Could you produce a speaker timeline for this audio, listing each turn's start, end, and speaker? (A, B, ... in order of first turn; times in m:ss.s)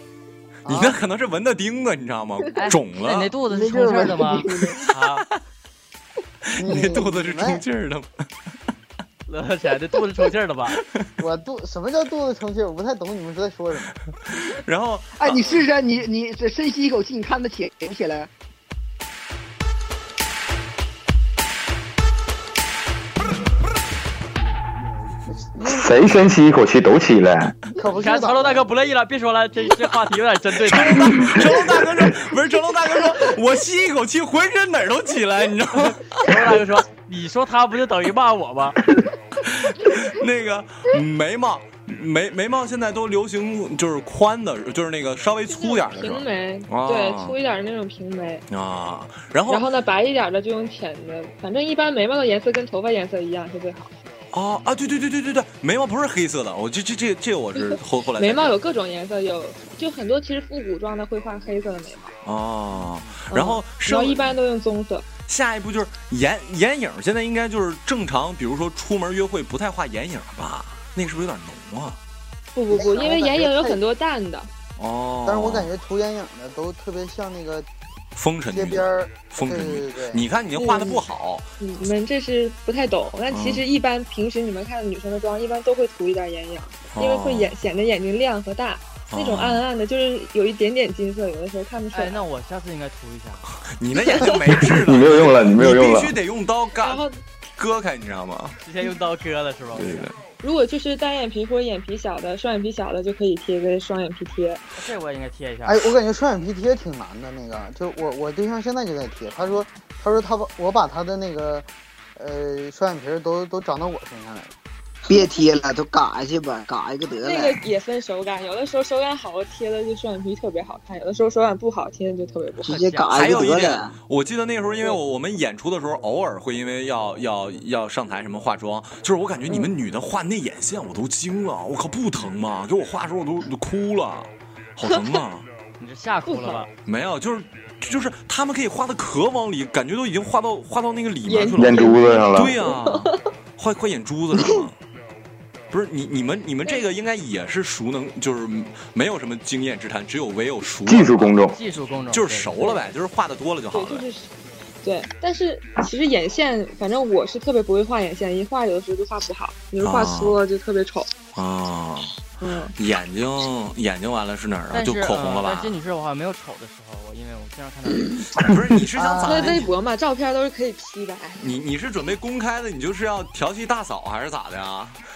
0:00.6-0:01.0 A
0:00.7-0:03.3 B
0:02.5-0:05.2 C
0:03.5-0:04.9 D
0:06.5-0:08.2 B
0:06.6-0:07.6 A
0:09.3-0:10.8 C
0:11.2-0:14.0 A
0:14.5-0:15.6 B
0:15.2-0:18.3 D
0:25.6-0:27.6 E
0:27.7-0:28.7 A
0:27.9-0:31.2 C
0:30.6-0:36.3 B
0:35.9-0:38.8 C
0:39.4-0:47.4 B
0:45.5-0:48.4 F
0:48.5-0:49.6 B
0:49.5-0:53.9 F
0:54.3-0:58.6 B
0:57.7-1:02.1 F
1:02.2-1:04.4 B
1:03.3-1:05.1 F
1:05.2-1:12.0 B
1:12.5-1:14.5 F
1:12.7-1:13.8 A
1:14.8-1:15.7 B
1:15.2-1:17.7 A
1:18.2-1:21.5 B
1:18.5-1:20.3 A
1:20.5-1:21.1 F
1:21.6-1:32.2 F
1:23.3-1:23.6 B
1:26.9-1:27.5 B
1:29.1-1:29.6 B
1:31.9-1:33.5 C
1:33.6-1:37.0 B
1:34.0-1:34.4 F
1:34.4-1:36.2 E
1:36.8-1:37.2 F
1:37.6-1:38.6 B
1:38.6-1:40.1 C
1:39.7-1:40.1 B
1:40.4-1:44.6 F
1:44.7-1:45.8 C
1:45.6-1:54.6 A
1:55.1-1:57.6 D
1:55.1-1:55.4 F
1:57.2-2:02.7 F
2:02.6-2:03.4 C
2:02.6-2:03.9 D
2:03.1-2:15.5 B
2:15.8-2:16.7 C
2:16.2-2:16.6 F
2:16.8-2:24.8 B
2:21.2-2:23.3 F
2:21.6-2:22.6 E
2:25.7-2:31.4 B
2:30.8-2:31.6 E
2:31.4-2:32.9 C
2:32.1-2:34.0 B
2:33.7-2:34.3 F
2:34.8-2:41.1 F
2:39.8-2:40.4 B
2:41.3-2:42.2 B
2:42.4-2:42.7 F
2:42.8-2:45.8 B
2:44.7-2:48.2 C
2:48.4-2:49.7 B
2:49.0-2:49.6 A
2:49.2-2:51.4 F
2:51.4-2:55.0 B